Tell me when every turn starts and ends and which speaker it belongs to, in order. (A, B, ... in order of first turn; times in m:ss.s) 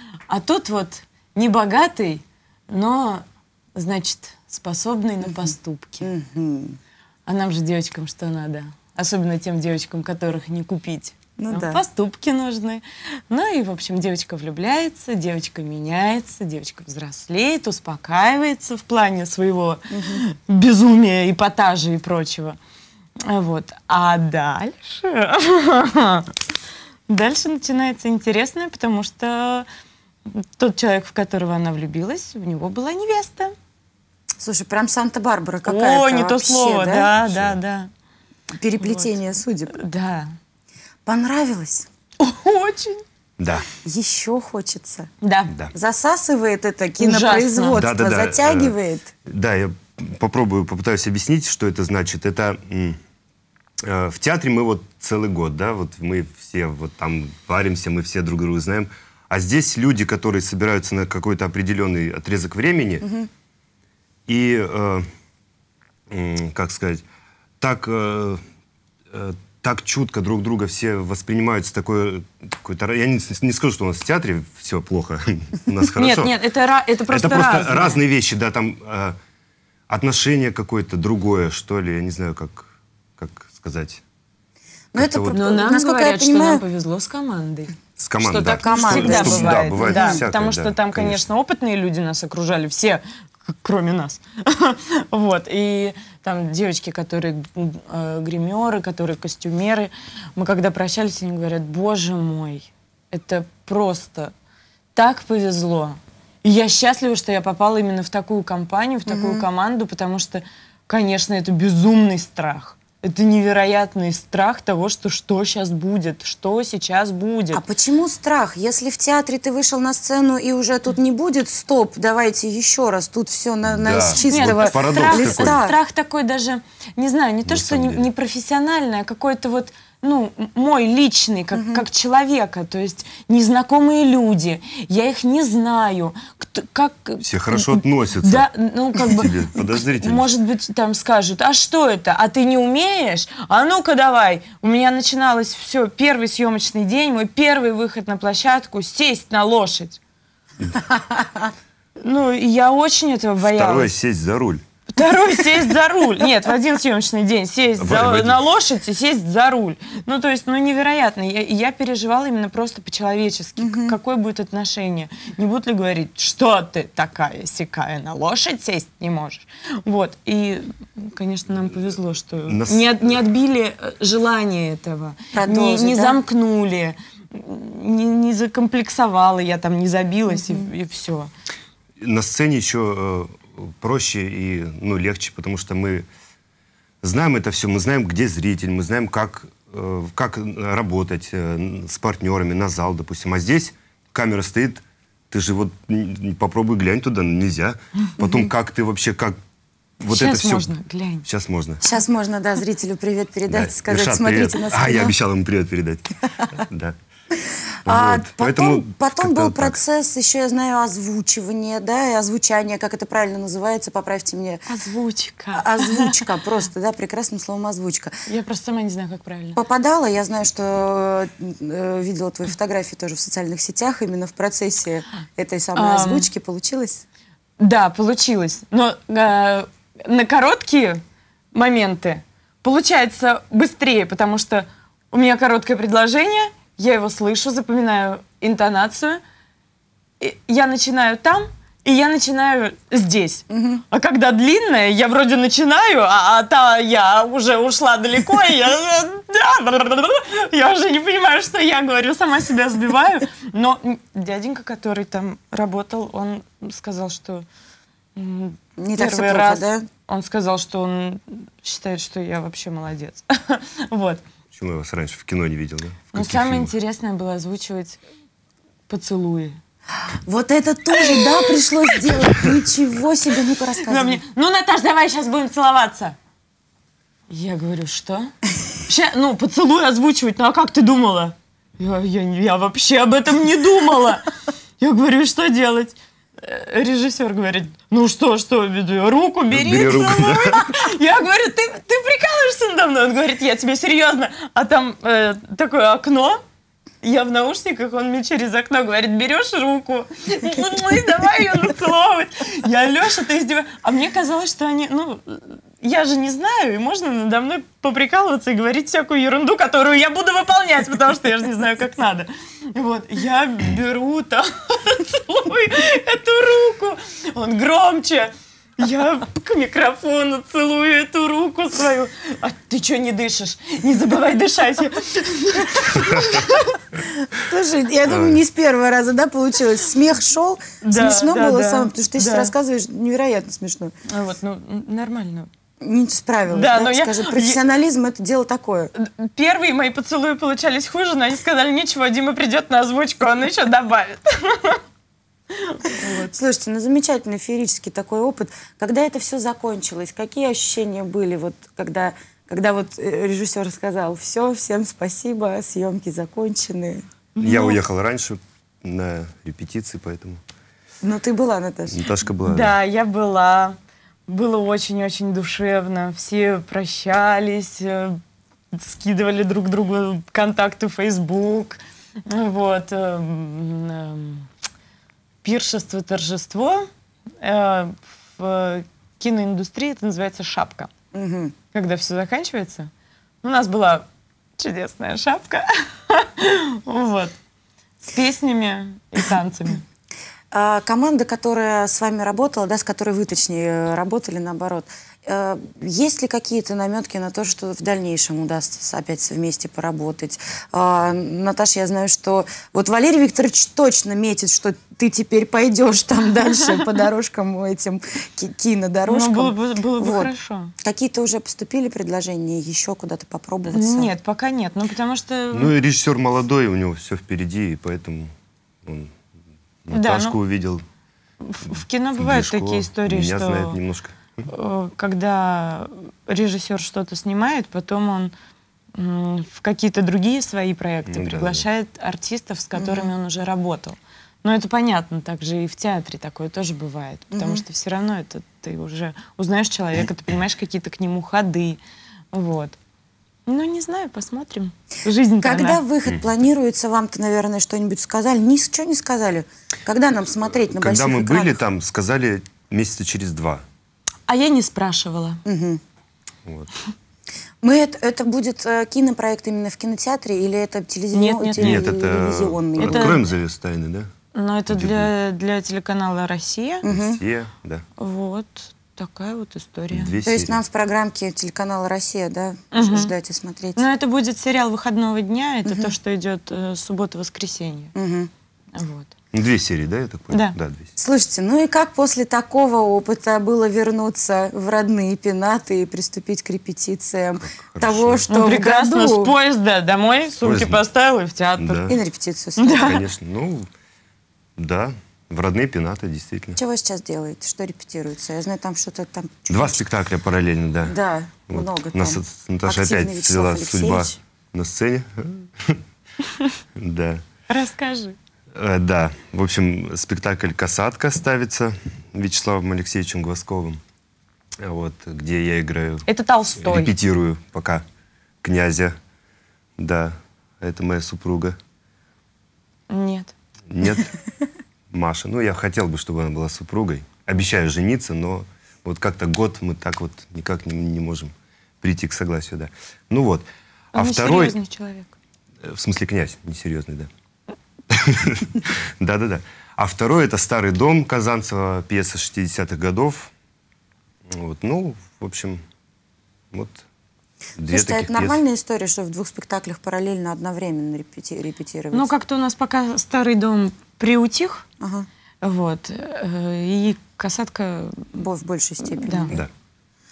0:00.3-0:06.1 A
0:05.2-0:06.8 B
0:07.3-0:22.6 A
0:11.4-0:11.8 B
0:19.9-0:20.2 B
0:23.2-0:26.4 A
0:27.1-0:29.7 A
0:30.3-0:33.5 A
0:34.4-0:37.1 B
0:35.7-0:37.9 A
0:37.2-0:37.6 C
0:38.6-0:39.8 B
0:38.8-0:39.1 A
0:39.7-0:40.4 A
0:41.1-0:41.9 B
0:42.2-0:43.0 A
0:43.4-0:43.7 C
0:43.8-0:45.1 B
0:45.2-0:45.5 A
0:45.7-0:49.1 B
0:47.0-0:47.9 A
0:47.8-0:53.0 C
0:53.8-1:03.1 C
1:04.3-1:05.0 C
1:06.1-1:07.0 C
1:07.6-1:08.4 C
1:09.1-1:16.3 C
1:16.0-1:18.0 A
1:17.1-1:19.2 C
1:19.9-1:24.0 C
1:24.9-1:26.6 B
1:25.0-1:25.4 C
1:25.3-1:44.3 A
1:28.0-1:31.2 C
1:28.5-1:30.2 B
1:45.0-1:57.6 A
1:49.1-1:49.4 B
1:57.5-2:05.8 B
2:03.7-2:05.6 C
2:04.3-2:30.0 A
2:07.5-2:08.1 C
2:11.5-2:11.8 B
2:17.2-2:18.5 C
2:19.1-2:20.2 C
2:32.0-2:33.9 A
2:33.4-2:34.6 C
2:34.9-3:01.3 A
2:37.8-2:38.4 C
2:43.6-2:44.0 B
2:52.5-2:52.9 C
2:55.3-2:56.2 B
3:00.3-3:00.7 B
3:02.0-3:06.1 C
3:07.0-3:19.4 C
3:18.2-3:18.5 B
3:20.0-3:20.7 C
3:20.1-3:21.3 A
3:21.2-3:21.8 C
3:21.8-3:25.1 B
3:23.5-3:27.0 C
3:27.8-3:29.8 C
3:27.8-3:34.6 B
3:34.7-3:36.2 A
3:35.5-3:38.2 B
3:38.3-3:39.6 A
3:39.6-3:47.0 B
3:45.8-3:46.3 A
3:47.6-3:51.0 A
3:51.5-3:59.2 A
4:00.2-4:17.5 A
4:03.5-4:03.8 B
4:18.2-4:24.2 A
4:18.8-4:19.9 B
4:24.5-4:26.7 C
4:26.1-4:28.0 A
4:28.9-4:29.6 A
4:30.3-4:34.2 B
4:30.9-4:32.2 A
4:33.9-4:36.2 A
4:37.3-4:38.3 A
4:38.8-4:44.2 A
4:44.8-4:56.4 A
4:49.5-4:50.9 C
4:57.0-5:26.8 A
5:27.3-5:33.9 B
5:28.1-5:28.4 C
5:30.8-5:32.5 A
5:34.1-5:35.5 A
5:35.8-5:38.9 B
5:36.5-5:37.6 A
5:39.0-5:44.8 A
5:45.5-5:46.3 A
5:45.9-5:57.0 B
5:57.4-5:57.8 A
5:57.4-6:00.4 C
6:01.0-6:02.0 B
6:01.9-6:02.8 C
6:02.4-6:08.2 A
6:08.7-6:14.5 A
6:15.4-6:16.9 A
6:17.4-6:20.9 A
6:21.1-6:21.5 B
6:21.7-6:22.9 A
6:23.4-6:27.4 A
6:28.1-6:29.8 A
6:30.5-6:54.1 B
6:49.1-6:50.7 A
6:53.7-6:55.8 A
6:55.5-6:58.3 C
6:58.8-6:59.2 C
6:59.8-7:00.8 C
6:59.9-7:00.4 A
7:01.4-7:03.8 A
7:02.2-7:04.5 C
7:04.5-7:08.3 A
7:09.0-7:21.8 A
7:11.1-7:11.6 C
7:12.8-7:13.1 B
7:17.3-7:17.6 B
7:22.3-7:22.8 A
7:23.5-7:25.8 A
7:25.4-7:31.6 B
7:30.8-7:33.6 C
7:34.3-7:35.4 A
7:35.4-7:35.8 B
7:36.4-7:36.7 C
7:37.6-7:43.2 B
7:41.1-7:41.9 A
7:41.6-7:44.1 C
7:42.8-7:43.2 A
7:44.3-7:46.8 A
7:44.7-7:45.1 C
7:46.8-7:47.2 B
7:46.9-7:47.8 C
7:48.0-7:50.2 A
7:49.9-7:50.6 C
7:50.2-7:53.8 B
7:52.7-7:53.1 A
7:53.8-7:57.9 A
7:55.6-7:55.9 B
7:58.0-7:58.3 B
7:58.8-7:59.1 A
7:59.3-8:00.9 C
8:00.3-8:00.6 A
8:01.0-8:09.3 B
8:07.4-8:08.2 C
8:08.3-8:11.9 A
8:10.4-8:10.8 C
8:11.6-8:12.0 C
8:11.9-8:13.0 B
8:12.6-8:13.0 A
8:12.7-8:13.7 C
8:14.6-8:16.6 C
8:16.6-8:19.8 B
8:19.5-8:21.0 C
8:20.9-8:24.2 B
8:21.5-8:25.8 C
8:26.8-8:27.2 C
8:27.5-8:28.2 A
8:28.5-8:33.8 C
8:34.6-8:37.8 C
8:36.1-8:36.9 A
8:38.4-8:39.0 C
8:39.8-8:41.6 C
8:42.9-8:43.3 A
8:43.7-8:44.1 C
8:44.9-8:54.6 C
8:53.9-8:55.1 A
8:55.6-8:57.1 C
8:57.9-9:03.3 C
9:04.3-9:05.6 C
9:06.5-9:06.8 C
9:07.6-9:08.4 C
9:07.7-9:12.1 B
9:11.9-9:14.6 A
9:14.8-9:15.1 B
9:15.4-9:18.2 A
9:18.1-9:19.4 B
9:18.9-9:19.4 A